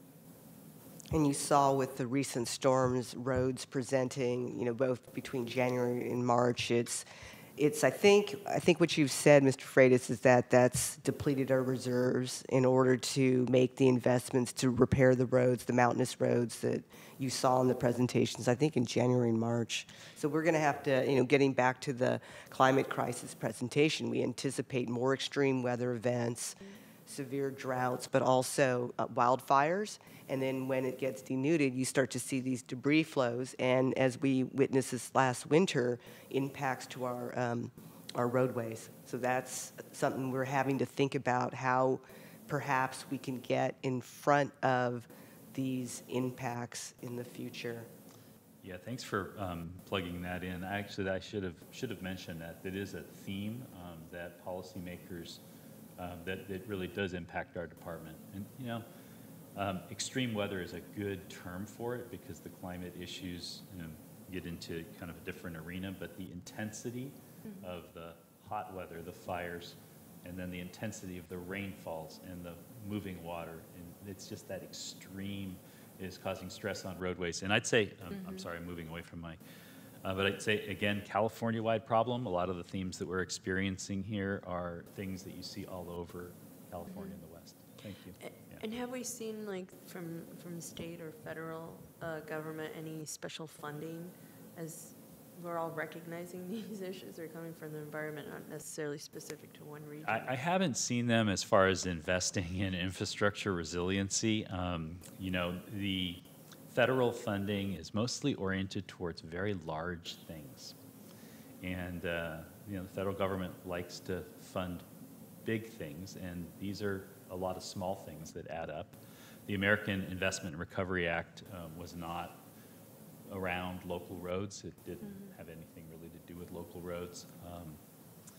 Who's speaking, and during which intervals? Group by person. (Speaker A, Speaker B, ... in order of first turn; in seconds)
Speaker A: 1.1-7.0, 7.6-47.9
Speaker B: 48.6-55.4, 56.0-58.9, 59.5-79.4, 80.0-88.6, 100.0-110.8, 111.6-114.8, 115.4-122.4, 123.3-127.8
Speaker C: 78.1-78.5, 86.8-87.2, 88.2-100.3, 125.0-125.3